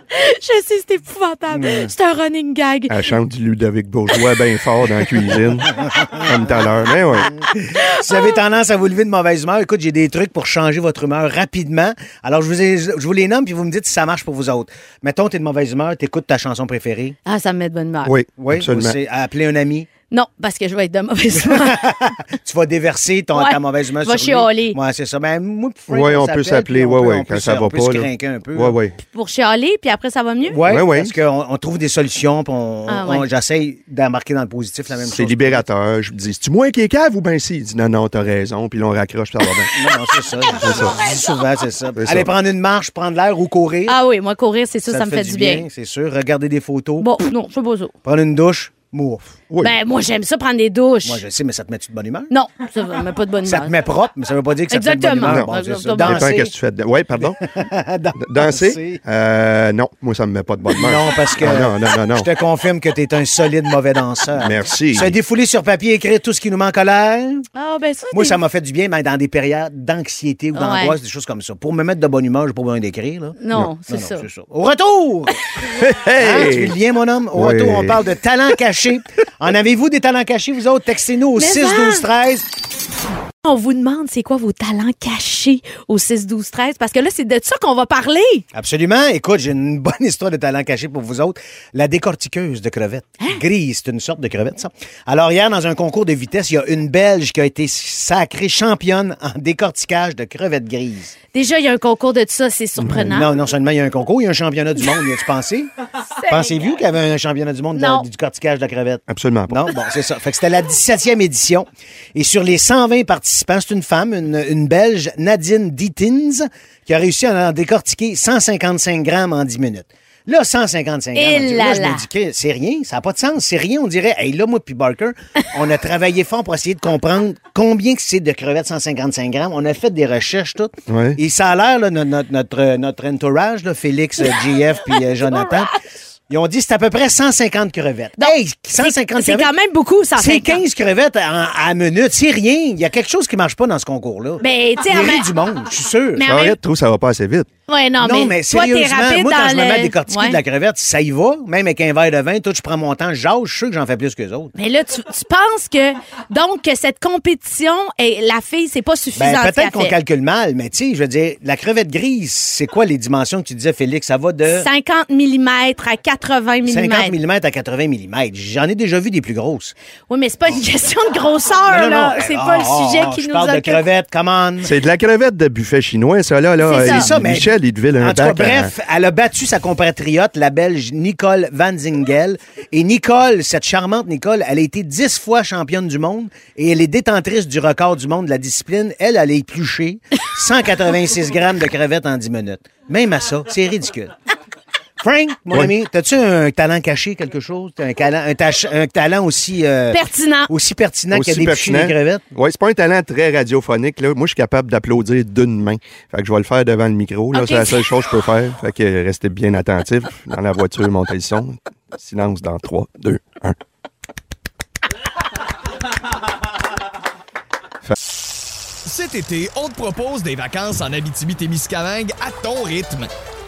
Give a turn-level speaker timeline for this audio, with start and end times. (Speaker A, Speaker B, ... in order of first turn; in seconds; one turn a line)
Speaker A: 0.1-3.1
Speaker B: 1.5-1.9
Speaker C: 2.9-7.3
Speaker B: 5.6-6.5
Speaker B: 7.3-17.1
Speaker A: 7.7-8.4
Speaker A: 17.2-18.1
Speaker C: 18.1-18.9
Speaker B: 18.4-19.9
Speaker A: 20.1-21.8
Speaker B: 21.3-28.8
Speaker A: 23.4-24.8
Speaker C: 25.9-28.9
Speaker A: 29.1-30.6
Speaker B: 30.4-35.6
Speaker C: 30.7-31.1
Speaker A: 32.9-33.3
Speaker C: 35.0-39.7
Speaker B: 39.7-44.0
Speaker A: 40.4-41.3
Speaker C: 40.6-41.0
Speaker C: 42.0-42.3
Speaker A: 43.9-45.6
Speaker B: 44.9-47.1
Speaker A: 47.0-47.9
Speaker B: 48.0-49.5
Speaker A: 49.6-51.2
Speaker B: 51.0-52.3
Speaker A: 52.3-53.7
Speaker B: 53.4-56.5
Speaker A: 54.7-56.3
Speaker C: 55.2-57.5
Speaker B: 57.2-59.0
Speaker C: 58.2-62.3
Speaker B: 60.7-67.4
Speaker C: 64.4-65.2
Speaker A: 67.5-68.4
Speaker B: 68.1-73.4
Speaker A: 70.5-71.0
Speaker A: 73.4-74.2
Speaker B: 73.9-75.4
Speaker C: 75.7-76.8
Speaker B: 76.2-82.5
Speaker C: 77.3-78.0
Speaker A: 81.4-82.0
Speaker A: 83.4-88.4
Speaker B: 88.5-101.2
Speaker A: 101.3-103.3
Speaker C: 102.8-103.1
Speaker B: 103.1-105.7
Speaker A: 106.0-106.8
Speaker B: 106.2-135.7
Speaker A: 107.7-108.1
Speaker C: 109.1-109.7
Speaker A: 121.1-122.0
Speaker C: 130.9-131.2
Speaker A: 134.9-135.7
Speaker B: 136.3-139.5
Speaker A: 138.2-140.6
Speaker B: 140.2-146.2
Speaker A: 144.4-145.3
Speaker A: 146.2-146.6
Speaker C: 146.2-147.5
Speaker A: 147.7-150.4
Speaker B: 148.0-154.5
Speaker A: 154.6-159.9
Speaker B: 159.2-164.7
Speaker A: 164.5-167.2
Speaker B: 166.7-169.7
Speaker A: 170.1-173.8
Speaker B: 171.7-174.7
Speaker C: 174.6-178.7
Speaker A: 176.6-177.1
Speaker B: 176.8-194.1
Speaker B: 195.0-202.2
Speaker A: 199.9-200.5
Speaker C: 201.1-213.6
Speaker A: 207.3-207.8
Speaker D: 218.8-223.1